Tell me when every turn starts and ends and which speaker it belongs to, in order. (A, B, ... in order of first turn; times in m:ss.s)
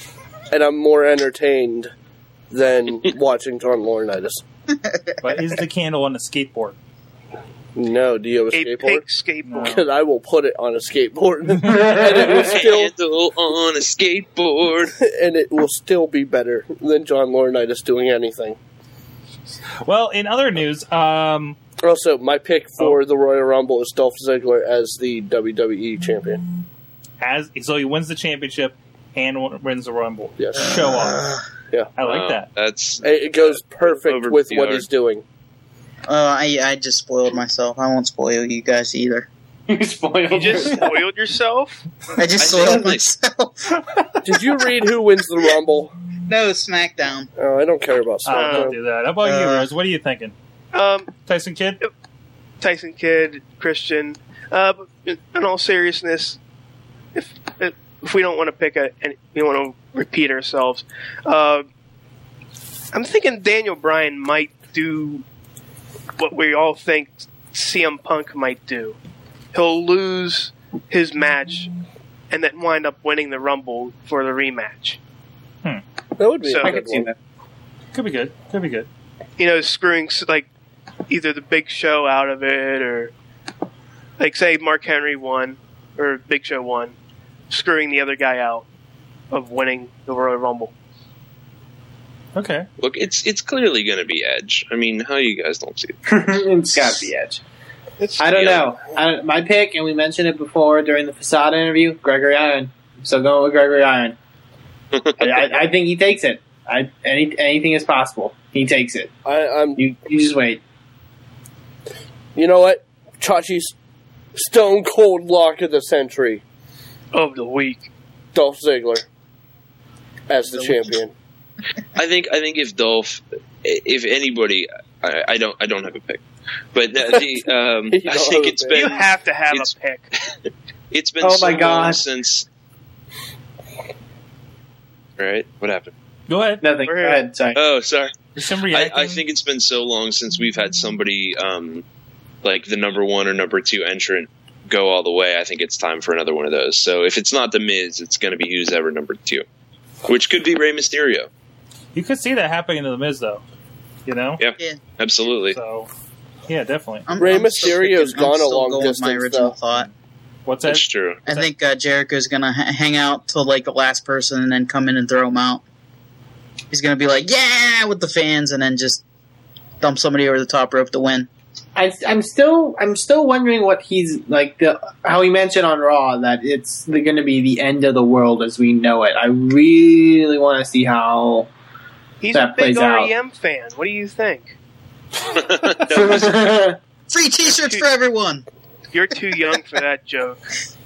0:00.5-0:01.9 A
0:02.5-0:04.4 A
0:05.2-0:06.8 B
0:07.8-0:09.0 A
0:08.5-0:09.7 C
0:09.4-0:09.8 B
0:09.6-0:12.9 A
0:11.6-0:12.5 D
0:12.0-0:14.9 E
0:14.9-0:18.6 A
0:19.8-0:21.6 B
0:21.8-0:26.4 A
0:27.2-0:31.2 B
0:30.4-0:30.8 A
0:32.0-0:32.5 B
0:32.0-0:34.9 E
0:33.0-0:35.2 A
0:36.1-0:39.3 F
0:39.7-0:40.8 D
0:40.3-0:41.8 C
0:42.2-0:43.8 F
0:42.4-0:43.1 E
0:44.2-0:45.9 A
0:46.2-0:47.3 F
0:47.4-0:48.7 A
0:48.2-0:50.3 B
0:48.3-0:48.7 C
0:49.2-0:49.6 F
0:50.7-0:51.1 C
0:51.2-0:51.8 B
0:52.6-0:56.4 C
0:57.1-1:01.7 C
1:02.9-1:05.2 C
1:06.2-1:09.0 C
1:09.5-1:11.7 C
1:12.3-1:15.0 C
1:16.2-1:17.1 A
1:16.4-1:16.8 C
1:16.6-1:17.1 D
1:17.9-1:18.9 B
1:19.4-1:20.5 C
1:21.1-1:23.1 C
1:24.2-1:26.9 C
1:27.5-1:28.6 C
1:29.3-1:30.7 C
1:32.4-1:32.7 B
1:32.8-1:36.3 E
1:36.1-1:37.4 D
1:38.2-1:44.2 D
1:38.2-1:38.7 E
1:44.9-1:45.4 E
1:45.2-1:49.2 D
1:49.2-1:49.8 A
1:49.8-1:50.6 D
1:52.4-1:53.7 A
1:54.3-1:56.4 A
1:57.1-1:57.9 C
1:58.3-1:59.0 A
2:00.3-2:01.1 A
2:00.5-2:00.9 F
2:02.0-2:06.2 E
2:06.7-2:09.7 E
2:07.9-2:09.0 A
2:08.7-2:10.1 C
2:10.9-2:12.5 E
2:11.2-2:12.0 D
2:15.2-2:15.9 E
2:16.3-2:16.6 B
2:16.6-2:17.6 D
2:16.8-2:17.2 C
2:17.5-2:18.1 E
2:18.4-2:19.2 B
2:18.7-2:21.8 E
2:22.4-2:29.4 E
2:30.0-2:31.3 E
2:31.9-2:33.4 B
2:34.0-2:34.4 B
2:34.4-2:35.6 E
2:35.5-2:35.9 B
2:36.5-2:37.2 B
2:37.1-2:39.9 F
2:37.2-2:39.6 A
2:40.4-2:41.5 B
2:40.7-2:41.2 E
2:41.2-2:45.6 F
2:46.7-2:49.0 F
2:49.8-2:51.3 F
2:51.8-3:01.5 D
3:02.2-3:04.5 C
3:02.3-3:03.1 D
3:05.3-3:06.4 E
3:05.9-3:06.8 D
3:07.1-3:08.4 F
3:07.4-3:07.9 C
3:08.9-3:10.5 C